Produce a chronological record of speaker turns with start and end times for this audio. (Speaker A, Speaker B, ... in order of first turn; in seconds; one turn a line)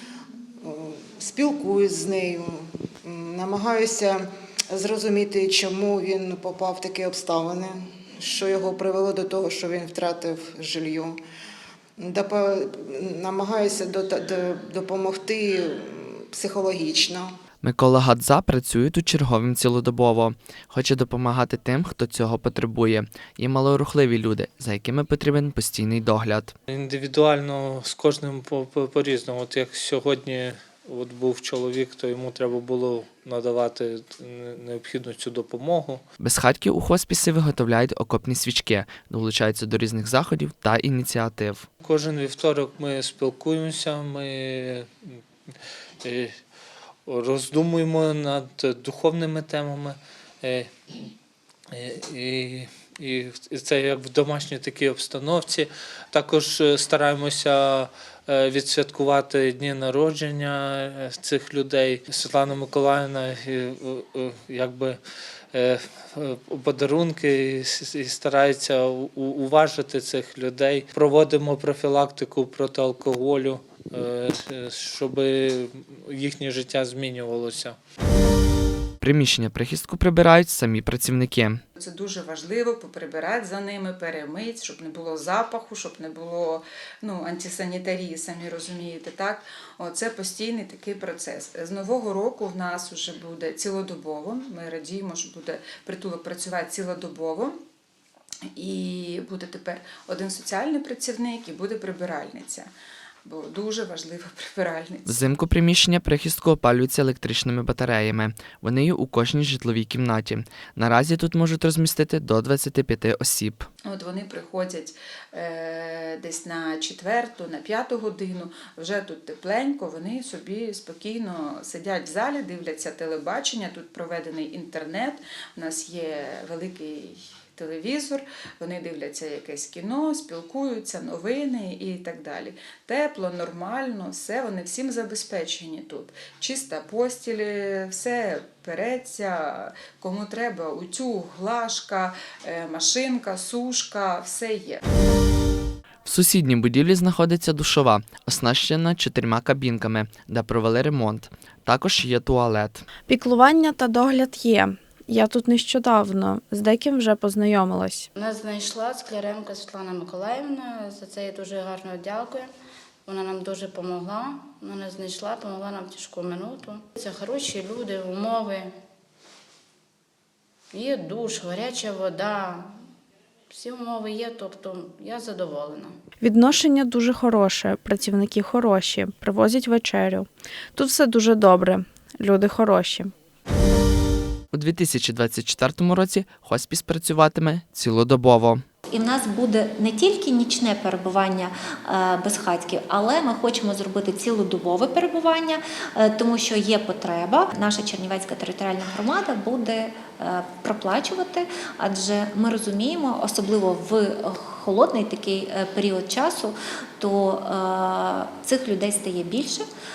Speaker A: 0.6-11.2
Speaker A: 12.0-17.3
Speaker B: 17.6-26.5
Speaker C: 26.7-36.0
Speaker B: 36.2-41.6
Speaker C: 41.8-46.4
Speaker C: 47.0-50.7
Speaker C: 51.7-65.0
Speaker C: 65.5-77.8
Speaker B: 79.0-81.6
Speaker D: 81.8-97.5
Speaker D: 98.5-102.7
Speaker D: 103.2-105.4
Speaker B: 105.1-113.7
Speaker D: 113.8-144.8
Speaker B: 146.0-152.8
Speaker E: 153.1-158.1
Speaker F: 158.2-162.5
Speaker F: 163.1-168.8
Speaker F: 170.7-172.9
Speaker F: 173.5-176.0
Speaker E: 176.2-183.1
Speaker B: 184.5-188.6
Speaker G: 188.9-209.6